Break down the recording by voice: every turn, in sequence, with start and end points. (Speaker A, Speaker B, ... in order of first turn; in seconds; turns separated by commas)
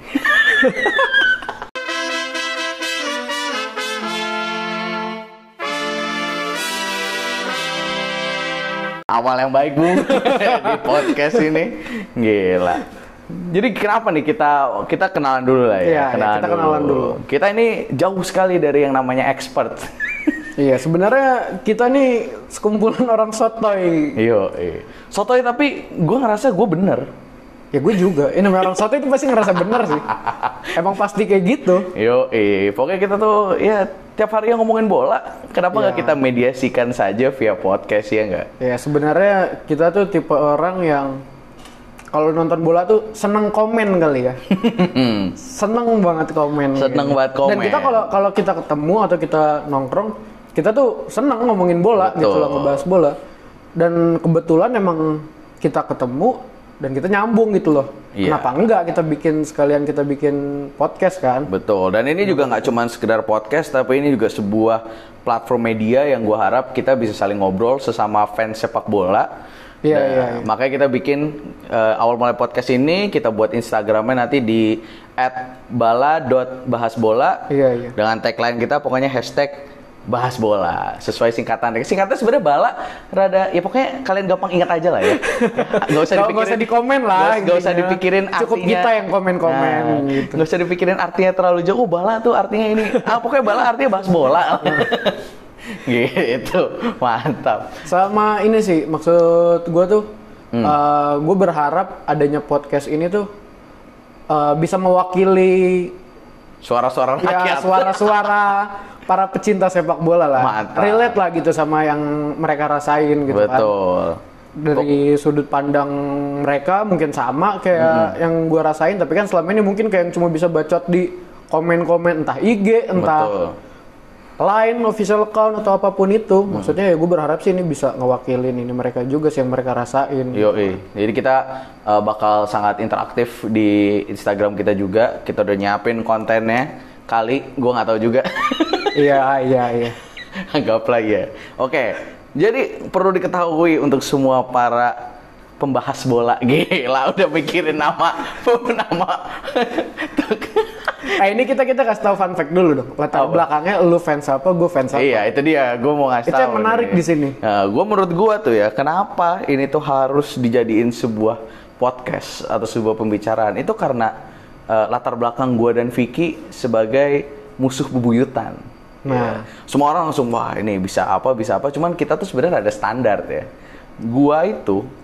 Speaker A: 0.4-1.1, Speaker B: 9.1-20.3, Speaker A: 10.2-11.0, Speaker A: 15.8-17.2, Speaker A: 20.6-24.2, Speaker B: 24.2-27.1, Speaker A: 27.7-30.1, Speaker B: 30.1-30.7, Speaker A: 30.7-31.9, Speaker B: 31.9-38.5, Speaker A: 35.7-36.2, Speaker A: 38.6-41.2, Speaker A: 42.1-44.4, Speaker B: 44.5-45.3, Speaker A: 45.4-53.1, Speaker B: 46.7-48.1, Speaker B: 52.0-52.8, Speaker A: 53.8-61.5, Speaker B: 58.1-58.6, Speaker B: 61.5-69.3, Speaker A: 62.2-62.7, Speaker A: 69.8-70.5, Speaker B: 69.9-88.9, Speaker A: 77.5-77.9, Speaker A: 85.1-90.4, Speaker B: 89.4-95.2, Speaker B: 95.8-97.8, Speaker A: 97.8-100.1, Speaker A: 100.6-103.3, Speaker A: 104.3-106.0, Speaker B: 106.6-108.4, Speaker A: 107.2-113.7, Speaker B: 110.4-111.2, Speaker B: 113.3-114.2, Speaker A: 114.6-123.3, Speaker B: 117.8-118.1, Speaker B: 123.0-123.5, Speaker A: 124.4-130.8, Speaker B: 130.3-139.0, Speaker A: 138.9-140.0, Speaker B: 140.4-144.9, Speaker B: 145.6-151.2, Speaker A: 151.1-155.2, Speaker B: 153.1-153.4, Speaker B: 154.9-164.1, Speaker A: 156.3-157.4, Speaker B: 164.7-173.5, Speaker A: 169.0-169.4, Speaker B: 174.0-174.9